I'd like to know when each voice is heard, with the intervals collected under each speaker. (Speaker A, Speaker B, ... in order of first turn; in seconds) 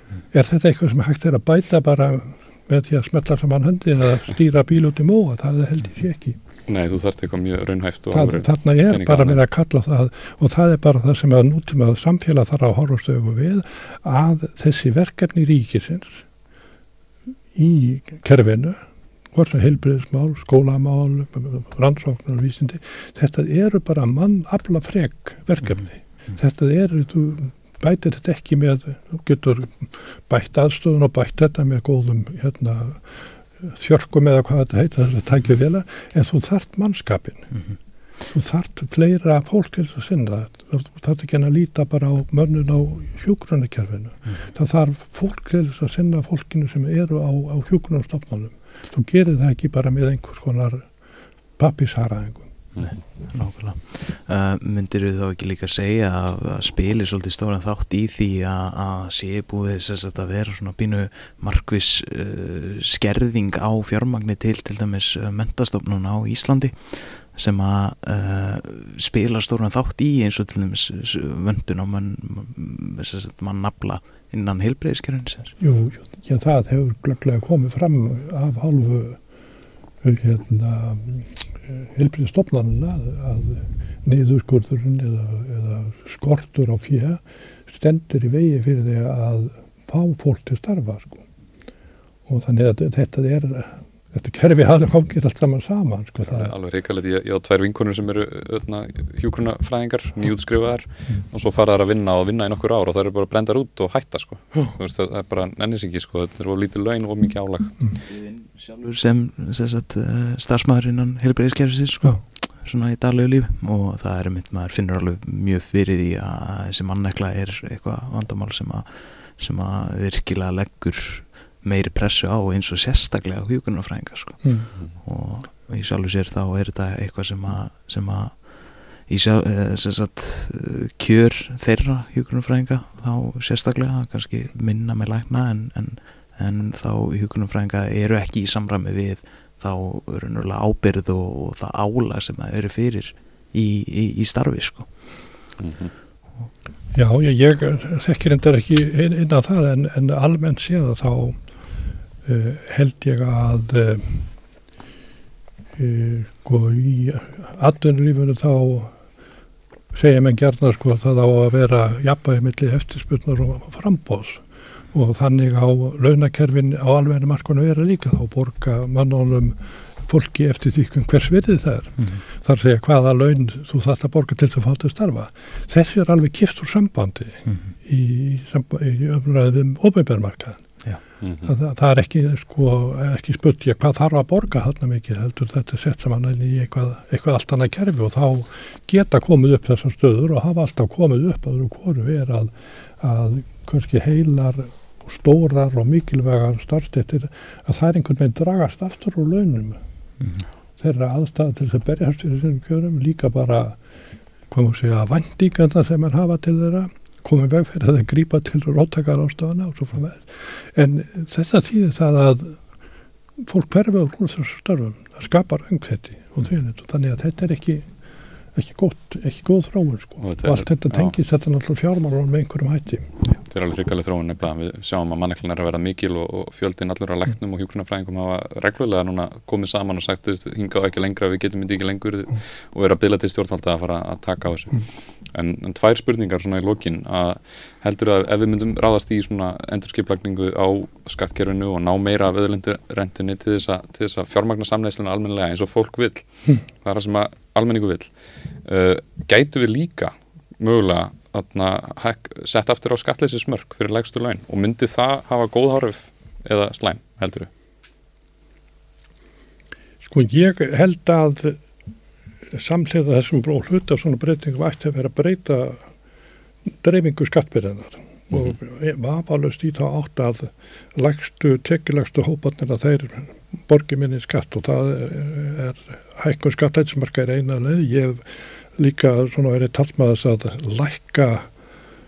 Speaker A: 0.3-6.4, 8.1-16.3, 17.5-18.8, 19.3-37.5, 38.3-50.9, 51.6-52.5, 75.6-79.2, 80.0-91.2, 92.3-96.5, 124.4-124.7, 146.9-151.4, 152.2-154.3, 155.8-158.9, 159.9-180.6, 181.4-199.8, 200.8-203.8, 204.5-212.6, 213.4-217.9, 218.6-223.1, 260.0-261.6, 262.5-265.8, 266.7-278.2, 278.8-281.5
Speaker B: 6.7-9.4, 96.2-107.8, 145.6-145.9, 181.2-181.5, 220.2-221.1, 223.5-246.3, 246.8-248.1, 248.6-257.5
Speaker C: 53.2-75.6, 108.0-144.9